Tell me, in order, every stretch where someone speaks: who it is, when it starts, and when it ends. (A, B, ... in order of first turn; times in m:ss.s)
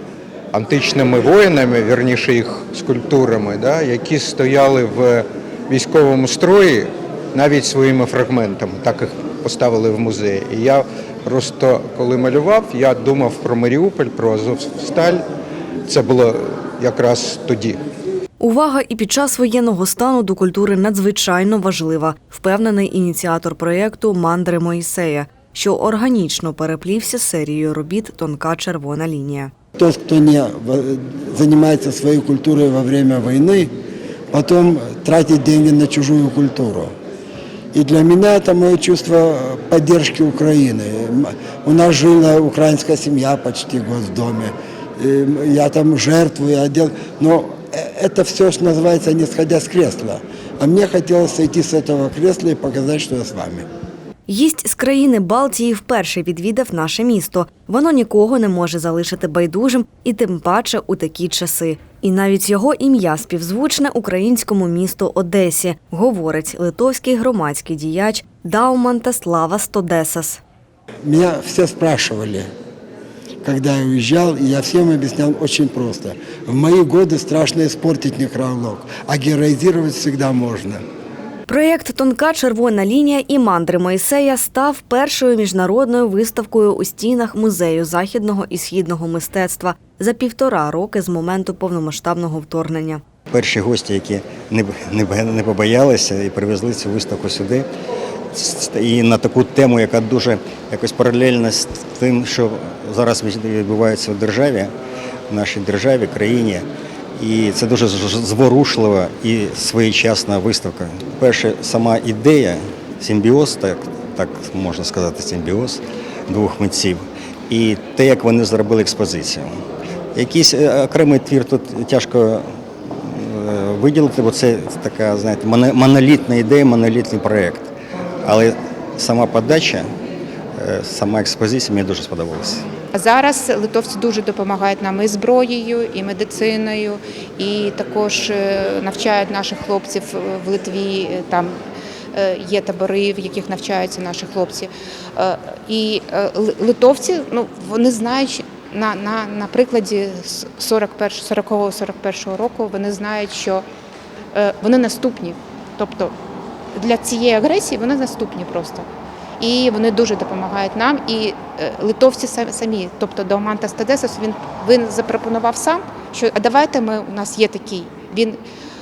0:00.5-0:15.2 A
0:15.8-0:17.8 A
0:18.4-0:29.5 B
0:29.8-0:33.7 C
0:34.3-0:36.9 C
0:37.7-0:53.6 C
0:54.3-1:10.4 B
1:11.0-1:12.5 C
1:13.4-1:20.8 C
1:21.5-1:33.0 B
1:33.3-1:37.6 D
1:38.3-1:44.7 D
1:45.3-1:46.6 D
1:47.2-1:59.5 D
2:00.1-2:07.7 D
2:08.2-2:09.9 D
2:10.6-2:12.6 D
2:12.9-2:21.5 E
2:22.1-2:33.6 E
2:34.3-2:36.1 E
2:36.7-2:38.8 E
2:39.4-2:48.4 E